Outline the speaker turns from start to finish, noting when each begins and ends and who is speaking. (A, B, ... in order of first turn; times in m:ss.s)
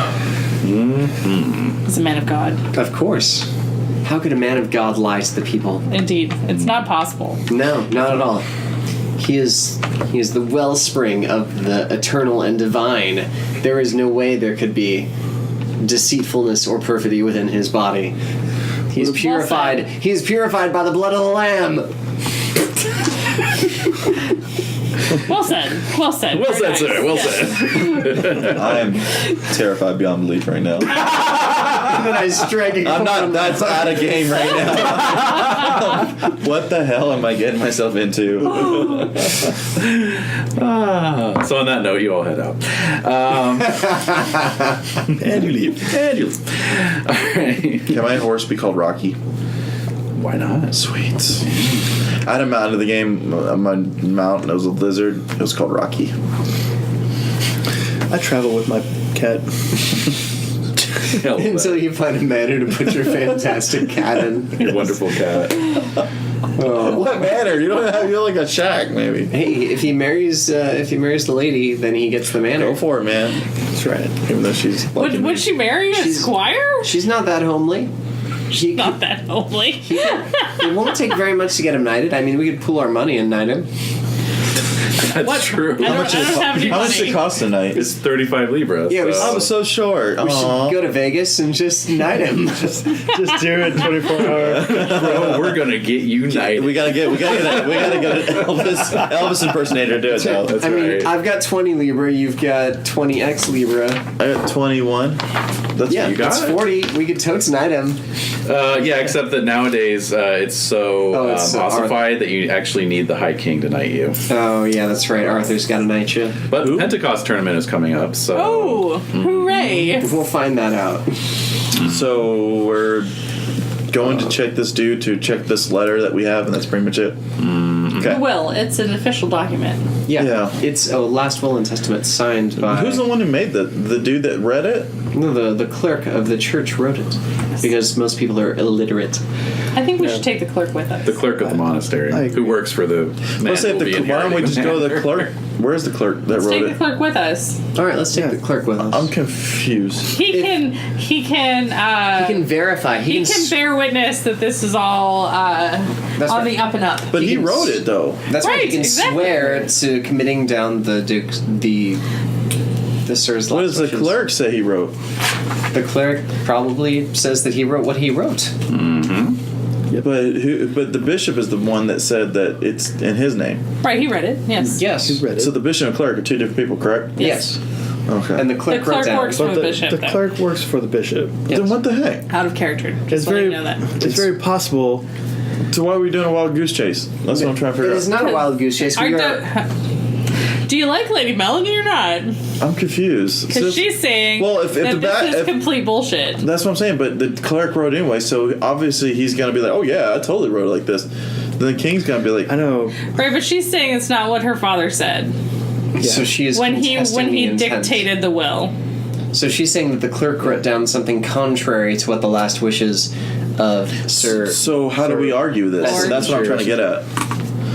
0:00.6-0:01.8 A
0:01.9-0:02.6 B
0:02.7-0:03.5 C
0:04.0-0:05.9 C
0:05.9-0:07.4 B
0:07.5-0:08.4 C
0:09.2-0:15.1 C
0:15.8-0:18.2 C
0:18.9-0:21.9 C
0:19.0-0:19.9 B
0:25.1-0:28.2 B
0:26.3-0:28.7 A
0:28.4-0:31.0 D
0:31.1-0:31.9 A
0:31.8-0:35.0 C
0:32.8-0:39.0 D
0:38.6-0:44.5 A
0:45.1-0:48.0 A
0:45.2-0:45.9 D
0:47.9-0:49.2 D
0:50.2-0:50.8 A
0:50.7-0:51.4 D
0:51.4-0:51.9 A
0:52.2-0:56.1 D
0:58.1-1:00.1 E
1:01.0-1:01.8 A
1:01.2-1:04.8 C
1:04.6-1:05.7 A
1:06.6-1:07.2 C
1:06.8-1:09.3 D
1:09.3-1:12.8 C
1:12.5-1:13.4 D
1:13.7-1:14.2 E
1:14.2-1:15.5 D
1:15.0-1:16.9 B
1:15.9-1:17.9 C
1:18.5-1:19.0 C
1:18.6-1:20.8 B
1:19.8-1:23.7 C
1:25.0-1:26.9 A
1:25.2-1:27.2 B
1:25.8-1:27.9 D
1:27.7-1:29.4 A
1:28.9-1:29.6 C
1:29.2-1:30.8 D
1:30.2-1:33.1 C
1:33.1-1:35.3 E
1:33.2-1:34.2 B
1:34.2-1:39.0 A
1:34.4-1:35.6 D
1:36.3-1:40.6 D
1:40.1-1:44.0 C
1:40.3-1:41.1 A
1:44.2-1:45.2 D
1:45.7-1:46.1 D
1:45.9-1:48.0 C
1:45.9-1:46.7 A
1:48.5-1:54.2 A
1:51.1-1:52.0 C
1:54.3-1:56.4 C
1:56.5-1:59.7 A
1:56.6-1:56.9 D
1:58.3-2:00.2 B
1:59.8-2:01.1 C
2:01.8-2:03.1 D
2:03.9-2:07.2 D
2:07.4-2:08.2 A
2:07.9-2:08.3 D
2:08.0-2:09.8 B
2:10.1-2:13.1 C
2:10.2-2:10.6 D
2:12.6-2:14.9 D
2:15.1-2:19.2 C
2:19.8-2:21.3 B
2:21.0-2:25.3 A
2:22.1-2:22.6 E
2:23.4-2:26.8 D
2:26.3-2:27.6 B
2:27.8-2:29.1 C
2:28.8-2:30.2 D
2:30.1-2:32.5 B
2:30.3-2:30.6 C
2:32.2-2:33.5 C
2:33.0-2:37.1 B
2:36.2-2:36.6 C
2:37.1-2:38.2 D
2:37.1-2:42.0 C
2:38.4-2:39.6 B
2:43.0-2:44.2 C
2:43.5-2:44.9 D
2:45.7-2:48.5 C
2:48.7-2:49.4 A
2:50.0-2:53.6 D
2:53.8-2:54.9 B
2:54.6-2:55.2 C
2:54.9-2:55.6 E
2:55.4-2:57.4 D
2:57.2-2:57.5 B
2:57.2-2:57.6 C
2:58.1-2:58.5 D
2:58.4-2:59.5 C
2:58.7-3:00.3 B
2:59.3-3:01.5 E
3:01.5-3:01.8 C
3:01.5-3:02.2 D
3:02.3-3:04.0 B
3:03.1-3:05.0 E
3:04.0-3:04.3 D
3:05.7-3:08.1 D
3:07.3-3:09.4 C
3:08.1-3:09.7 B
3:10.7-3:12.3 B
3:12.6-3:15.7 D
3:13.5-3:16.4 B
3:16.4-3:22.5 D
3:22.5-3:23.0 E
3:23.1-3:25.3 B
3:26.0-3:28.0 C
3:26.0-3:26.4 E
3:26.5-3:28.7 B
3:29.3-3:36.8 C
3:34.2-3:37.1 D
3:35.8-3:36.5 B